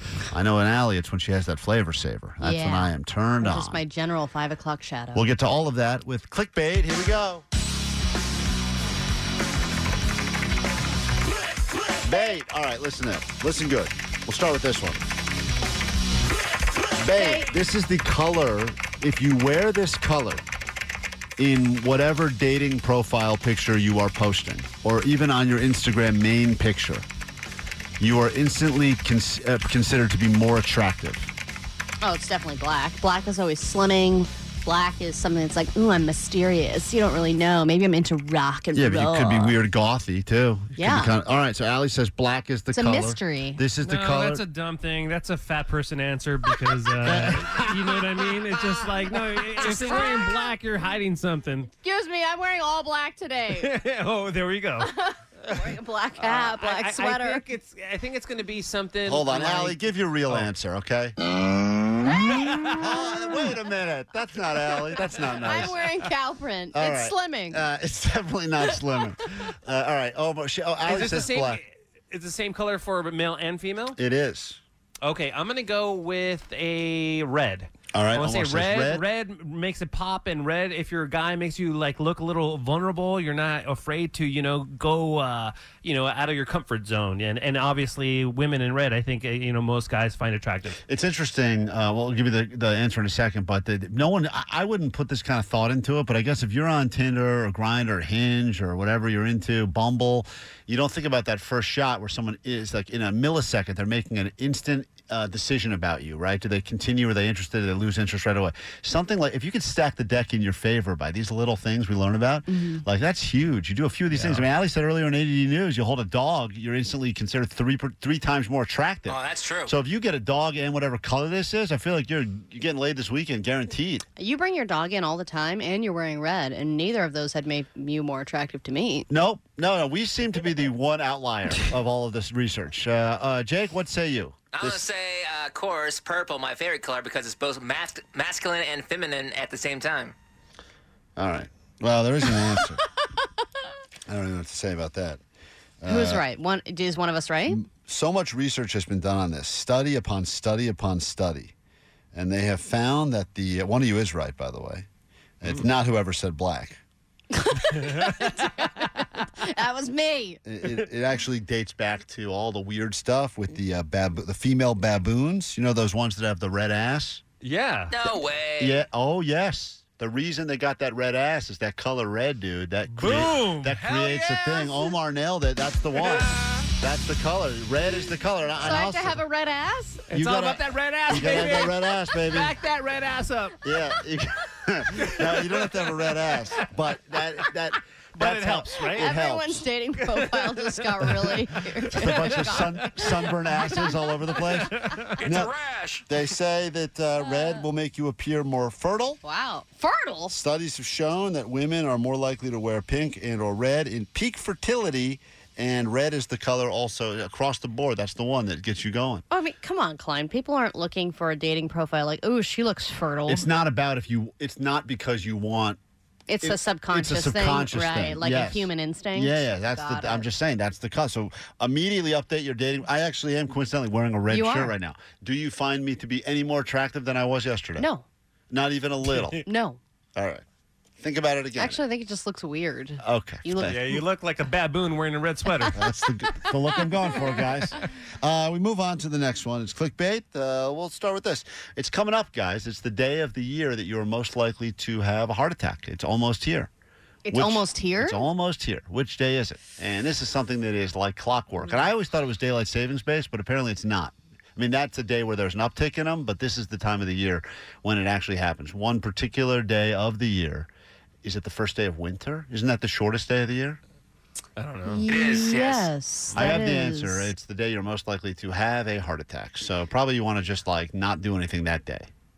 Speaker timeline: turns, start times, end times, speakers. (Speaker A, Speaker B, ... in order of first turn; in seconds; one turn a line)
Speaker A: 0.3-3.8
Speaker B: 2.4-5.3
Speaker A: 5.1-7.4
Speaker A: 12.0-15.1
Speaker A: 17.0-20.4
Speaker B: 17.2-17.5
Speaker A: 21.4-27.1
Speaker A: 28.0-31.3
Speaker B: 32.0-39.6
Speaker A: 38.7-44.4
Speaker B: 40.8-41.1
Speaker B: 42.7-43.6
Speaker C: 43.8-51.7
Speaker A: 47.0-47.7
Speaker B: 49.6-50.5
Speaker B: 51.7-53.7
Speaker C: 53.5-54.9
Speaker B: 54.8-57.5
Speaker C: 55.4-60.5
Speaker A: 59.1-61.2
Speaker C: 62.3-62.7
Speaker A: 62.7-65.8
Speaker C: 65.0-65.3
Speaker B: 65.3-67.6
Speaker A: 66.7-71.6
Speaker C: 70.9-74.0
Speaker A: 74.0-74.6
Speaker C: 75.0-90.8
Speaker A: 77.9-79.0
Speaker A: 90.9-124.1
Speaker B: 112.5-112.8
Speaker C: 114.1-114.5
Speaker D: 119.1-119.7
Speaker B: 124.2-129.1
Speaker A: 129.1-134.8
Speaker D: 134.5-140.1
Speaker A: 141.2-142.9
Speaker A: 144.1-145.2
Speaker A: 145.8-146.2
Speaker B: 145.9-147.6
Speaker A: 147.5-151.5
Speaker A: 152.1-154.9
Speaker A: 155.4-156.8
Speaker B: 157.3-160.4
Speaker C: 157.9-158.2
Speaker A: 160.4-167.2
Speaker C: 167.4-168.0
Speaker D: 167.9-168.8
Speaker A: 168.0-179.2
Speaker C: 172.9-174.9
Speaker C: 176.0-176.6
Speaker B: 178.6-180.1
Speaker C: 180.1-183.6
Speaker A: 180.1-182.5
Speaker B: 181.1-181.8
Speaker A: 183.6-189.6
Speaker C: 184.9-185.4
Speaker C: 188.1-189.1
Speaker B: 188.9-193.9
Speaker C: 190.0-193.2
Speaker A: 191.9-195.5
Speaker C: 194.3-195.2
Speaker D: 195.2-196.1
Speaker A: 196.1-199.2
Speaker B: 199.2-200.4
Speaker A: 200.3-209.2
Speaker B: 209.3-213.5
Speaker A: 213.3-215.8
Speaker B: 216.3-220.3
Speaker A: 216.4-227.9
Speaker B: 224.3-224.7
Speaker B: 227.8-228.1
Speaker A: 228.5-229.5
Speaker B: 229.4-229.8
Speaker A: 230.2-230.4
Speaker A: 231.0-231.8
Speaker B: 231.6-234.0
Speaker A: 233.0-234.0
Speaker C: 233.7-235.8
Speaker A: 235.7-246.7
Speaker B: 237.1-237.4
Speaker B: 247.2-248.2
Speaker A: 247.3-260.7
Speaker A: 261.2-263.8
Speaker C: 264.6-265.1
Speaker B: 264.9-267.3
Speaker D: 265.1-265.9
Speaker A: 266.3-272.1